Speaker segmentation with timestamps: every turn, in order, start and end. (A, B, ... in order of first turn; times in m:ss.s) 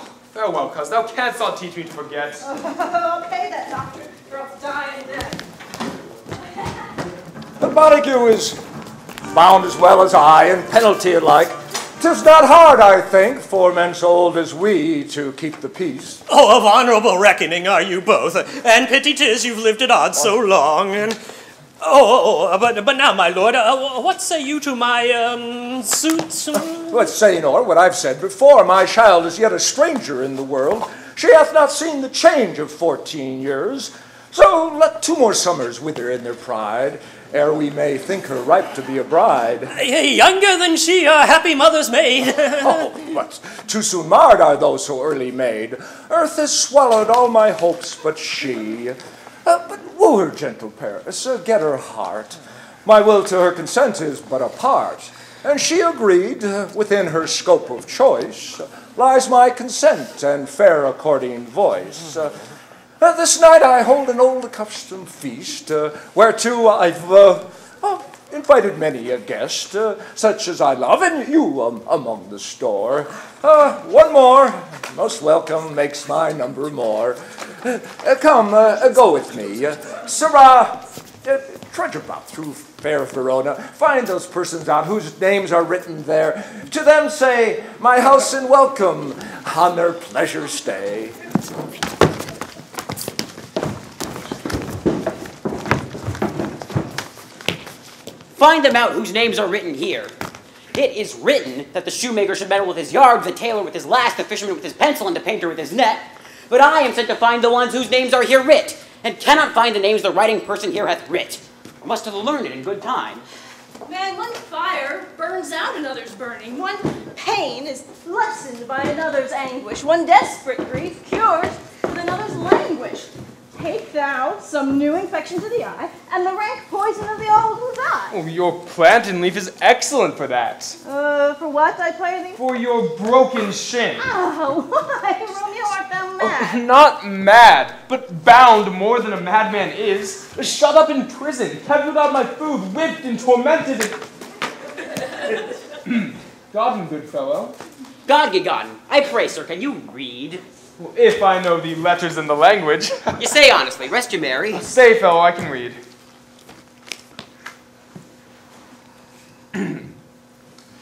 0:00.3-0:02.4 A
0:02.4-0:05.4 B
0:07.6-0:08.6 C
0:09.3-0:16.2 C
0:16.3-0:21.2 D
0:21.8-0:27.0 D
0:26.9-0:39.7 C
0:39.7-0:42.9 D
0:42.6-1:02.4 C
1:03.0-1:31.2 C
1:38.4-1:40.1 E
1:40.7-1:53.2 E
1:53.8-2:08.2 B
2:08.1-2:10.8 A
2:10.8-2:12.4 B
2:12.4-2:14.0 A
2:14.0-2:16.6 B
2:16.2-2:24.0 A
2:25.8-2:27.5 A
2:28.0-2:30.4 E
2:30.8-2:33.3 A
2:33.2-2:34.6 E
2:34.5-2:35.8 A